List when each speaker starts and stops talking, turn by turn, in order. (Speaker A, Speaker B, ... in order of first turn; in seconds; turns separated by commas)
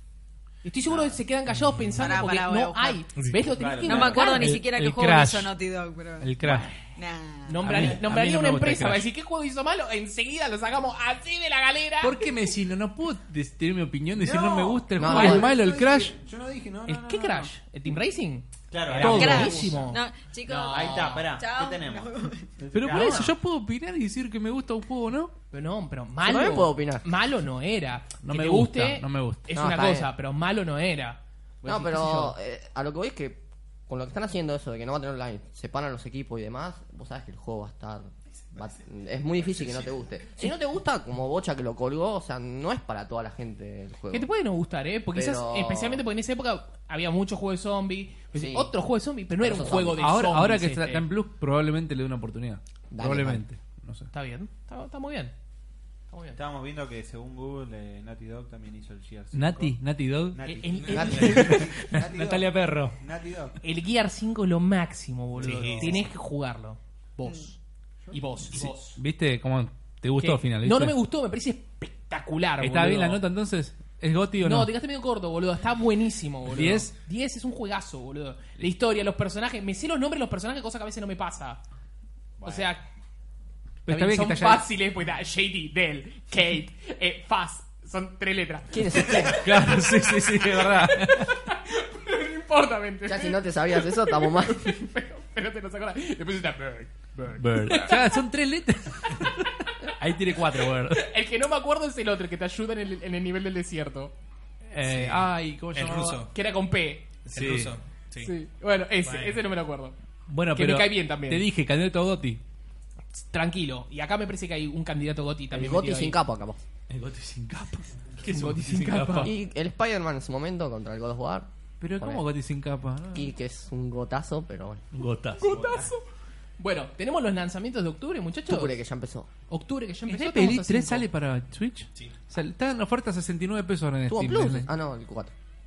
Speaker A: 0.6-4.6, Speaker B: 0.8-1.2, Speaker C: 2.0-3.0, Speaker D: 3.2-3.5, Speaker B: 3.5-4.2, Speaker C: 3.8-7.8, Speaker E: 4.2-5.5, Speaker E: 6.2-6.7, Speaker A: 7.5-12.3, Speaker E: 7.6-9.1, Speaker E: 12.0-16.2, Speaker B: 14.2-17.5, Speaker F: 14.9-15.6, Speaker A: 16.9-21.3, Speaker B: 18.7-20.0, Speaker E: 18.9-19.7, Speaker C: 19.0-22.5, Speaker B: 20.6-23.4, Speaker E: 22.7-25.3, Speaker A: 22.9-23.2, Speaker F: 22.9-23.3, Speaker A: 25.5-32.4, Speaker F: 26.2-27.1, Speaker E: 28.2-29.5, Speaker F: 29.5-30.1, Speaker F: 31.6-44.3, Speaker B: 39.5-39.9, Speaker A: 44.1-51.1, Speaker F: 45.1-46.0, Speaker F: 48.3-48.7, Speaker F: 49.4-50.1, Speaker E: 50.0-54.1, Speaker F: 52.9-53.4, Speaker A: 54.1-55.4, Speaker A: 56.1-56.4, Speaker B: 56.4-63.6, Speaker E: 59.3-60.4, Speaker A: 60.4-61.8, Speaker D: 60.8-61.5, Speaker E: 61.2-63.0, Speaker A: 63.6-67.6, Speaker D: 65.4-66.1, Speaker B: 65.4-66.1, Speaker B: 68.1-69.0, Speaker A: 68.1-68.8, Speaker E: 69.0-71.0, Speaker A: 70.2-73.2, Speaker E: 72.6-74.7, Speaker A: 74.4-81.6, Speaker E: 76.5-76.9, Speaker B: 82.4-82.8, Speaker A: 82.4-82.9, Speaker E: 83.9-84.7, Speaker A: 83.9-98.3, Speaker F: 88.7-89.4, Speaker E: 89.3-91.4, Speaker F: 93.0-94.8, Speaker E: 97.4-101.1, Speaker A: 99.2-99.7, Speaker A: 100.6-104.1, Speaker E: 104.7-106.2, Speaker D: 104.8-106.3, Speaker A: 106.2-107.1, Speaker E: 107.3-107.8, Speaker D: 107.3-108.3, Speaker A: 108.2-110.0, Speaker D: 109.0-109.4, Speaker E: 110.3-112.4, Speaker A: 110.5-111.5, Speaker A: 113.2-116.2, Speaker F: 115.5-116.7, Speaker E: 116.9-119.3, Speaker A: 118.3-119.3, Speaker F: 119.2-121.5, Speaker E: 121.8-123.3, Speaker F: 122.0-122.3, Speaker F: 123.1-124.9, Speaker E: 124.9-125.6, Speaker A: 125.4-126.0, Speaker B: 125.4-125.9, Speaker A: 126.6-128.8, Speaker F: 128.5-129.3, Speaker A: 129.5-131.1, Speaker E: 130.1-134.7, Speaker F: 134.1-135.3